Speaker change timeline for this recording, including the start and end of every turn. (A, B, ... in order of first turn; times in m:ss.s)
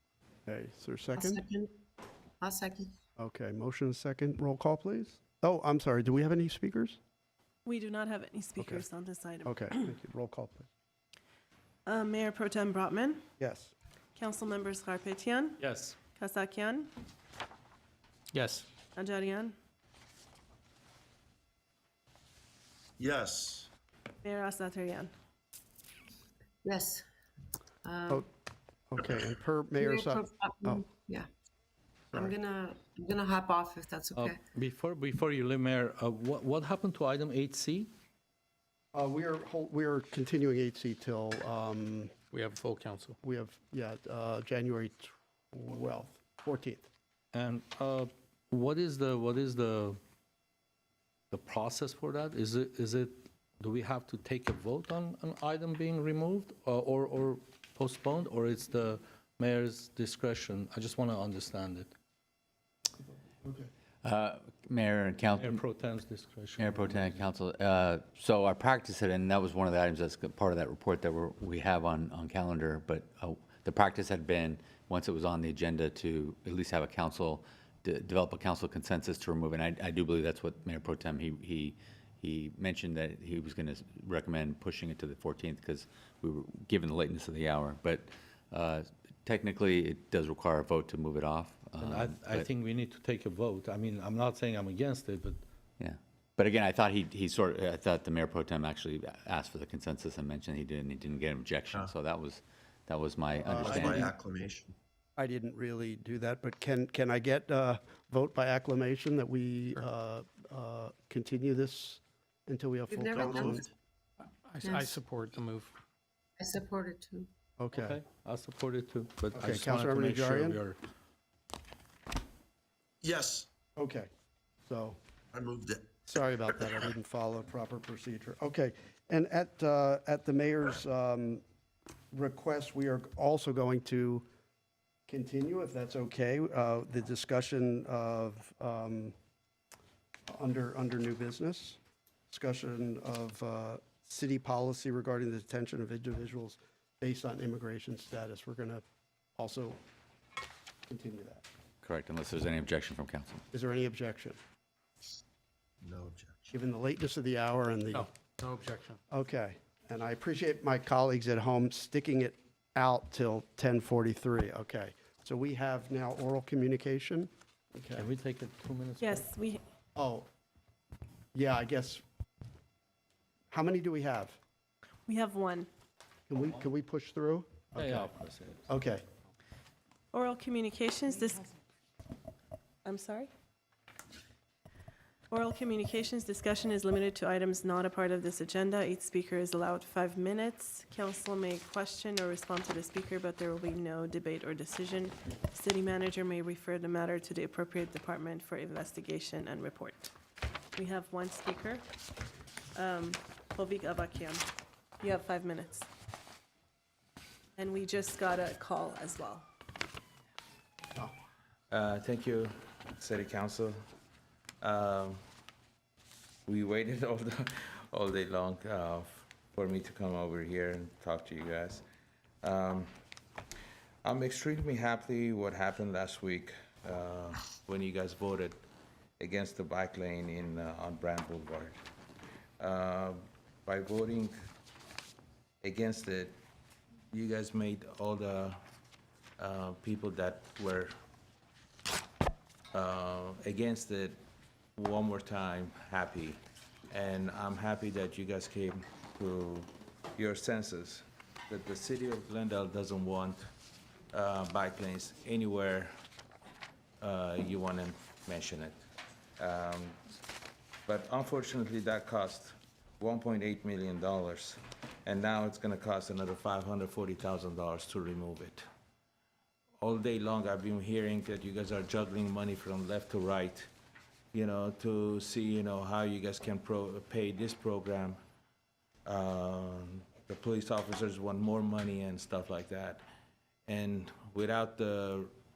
0:00.5-0:01.4 A
0:01.2-0:01.7 B
0:02.4-0:02.9 B
0:03.2-0:07.0 A
0:07.6-0:09.7 C
0:08.6-0:08.8 A
0:09.4-0:10.7 A
0:11.8-0:13.2 C
0:13.4-0:13.7 A
0:14.2-0:15.6 C
0:15.6-0:15.9 D
0:16.2-0:16.9 C
0:18.3-0:18.7 E
0:19.0-0:19.5 C
0:23.0-0:23.7 F
0:24.2-0:25.1 C
0:26.6-0:27.0 B
0:27.8-0:28.2 B
0:28.9-0:30.8 A
0:29.8-0:31.3 B
0:32.1-0:34.4 B
0:34.2-0:37.9 D
0:38.9-0:42.1 A
0:42.3-0:43.2 E
0:43.2-0:46.9 A
0:47.3-0:50.0 D
0:51.3-1:01.9 D
1:03.4-1:03.7 A
1:04.0-1:05.6 G
1:05.4-1:07.2 D
1:06.6-1:32.5 G
1:31.8-1:35.4 D
1:35.8-1:44.1 G
1:41.7-1:41.9 F
1:43.4-1:44.0 A
1:43.5-1:44.7 F
1:45.2-1:53.6 A
1:52.9-1:53.7 B
1:54.4-1:55.7 E
1:54.6-1:55.0 B
1:56.4-1:57.3 B
1:57.6-1:58.0 A
1:57.7-2:00.8 D
1:59.3-2:00.6 A
2:03.0-2:03.5 F
2:03.8-2:04.1 A
2:04.7-2:05.0 A
2:05.3-2:05.9 F
2:06.1-2:11.4 A
2:12.1-2:14.2 A
2:15.1-2:19.1 A
2:20.3-2:21.8 A
2:22.3-2:28.8 A
2:29.4-2:29.8 A
2:30.9-2:31.4 A
2:31.8-2:33.4 G
2:33.5-2:34.4 A
2:35.8-2:36.5 F
2:36.5-2:38.1 A
2:37.9-2:39.0 E
2:39.1-2:48.1 A
2:47.9-2:49.2 D
2:49.0-2:49.6 C
2:50.0-2:50.3 A
2:51.3-2:52.0 A
2:53.5-2:54.4 A
2:55.1-2:55.7 C
2:56.3-2:58.1 A
2:57.8-2:58.7 D
2:58.7-2:59.0 A
3:00.1-3:01.4 C
3:02.8-3:03.3 C
3:05.3-3:20.1 C
3:20.7-3:21.8 C
3:22.7-3:24.4 C
3:25.0-3:25.9 C
3:27.6-3:29.4 C
3:31.7-3:33.8 H
3:34.6-3:35.2 H
3:36.5-3:41.8 H
3:42.4-3:42.9 H
3:44.0-3:48.6 H
3:49.2-3:51.8 H
3:52.6-3:54.3 H
3:55.6-3:56.4 H
3:57.1-3:58.6 H
3:59.4-4:00.9 H
4:02.7-4:04.2 H
4:04.8-4:13.4 H
4:14.1-4:15.9 H
4:17.0-4:18.8 H
4:19.4-4:20.0 H
4:20.9-4:28.6 H
4:29.8-4:33.7 H
4:34.3-4:38.2 H
4:39.0-4:43.0 H
4:43.7-4:45.3 H